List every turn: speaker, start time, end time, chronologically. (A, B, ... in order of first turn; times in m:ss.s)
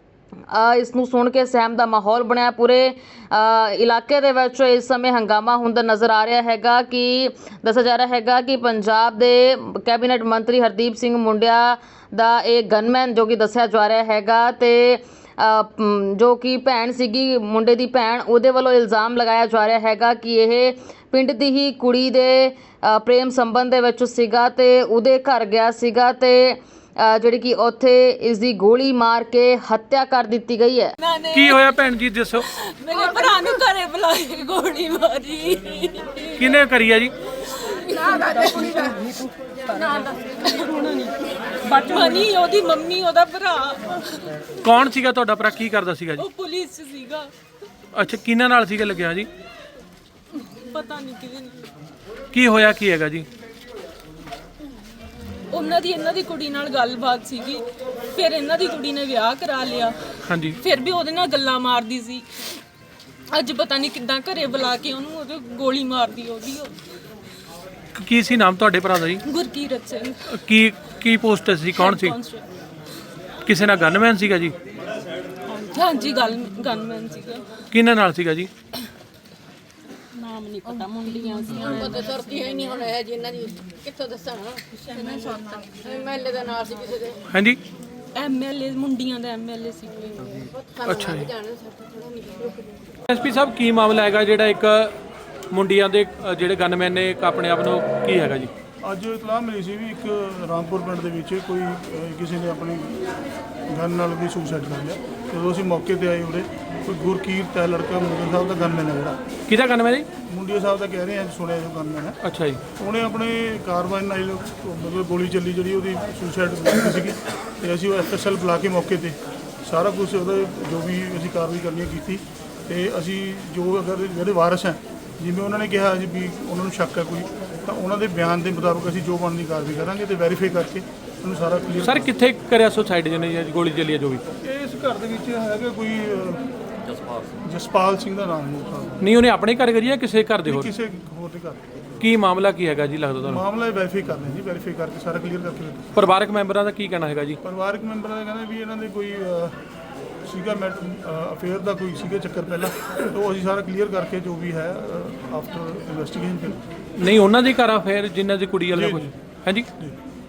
0:00.5-0:30.9 A
0:31.0-0:31.6 B
0:31.3-0:32.4 C
0:32.4-0:36.5 B
0:36.4-0:37.1 C
0:37.5-0:39.2 B
0:39.7-0:44.3 B
0:44.6-0:46.2 C
0:46.2-0:47.3 B
0:47.9-0:49.3 C
0:50.6-0:51.7 B
0:52.3-0:53.3 C
0:55.5-0:59.9 B
1:00.2-1:00.6 C
1:00.6-1:02.3 B
1:03.3-1:06.7 B
1:07.9-1:09.2 C
1:09.2-1:10.3 B
1:10.3-1:12.2 C
1:11.8-1:12.4 B
1:13.4-1:14.5 C
1:15.5-1:17.5 B
1:17.7-1:18.5 C
1:20.2-1:22.2 B
1:21.6-1:27.2 D
1:27.3-1:27.6 C
1:28.1-1:30.5 B
1:30.4-1:32.8 D
1:30.8-1:31.3 C
1:33.1-1:34.9 C
1:35.5-1:38.5 C
1:38.8-1:43.0 E
1:43.7-1:49.2 E
1:49.5-1:50.1 C
1:50.2-1:52.2 E
1:52.2-1:52.6 C
1:52.8-2:12.1 E
2:11.8-2:14.2 C
2:14.4-2:16.5 E
2:17.4-2:19.0 E
2:19.0-2:20.7 C
2:20.4-2:21.6 E
2:22.0-2:23.4 C
2:23.3-2:25.9 E
2:26.0-2:27.4 C
2:27.4-2:29.6 E
2:30.2-2:36.6 E
2:37.0-2:39.7 C
2:38.7-2:39.1 E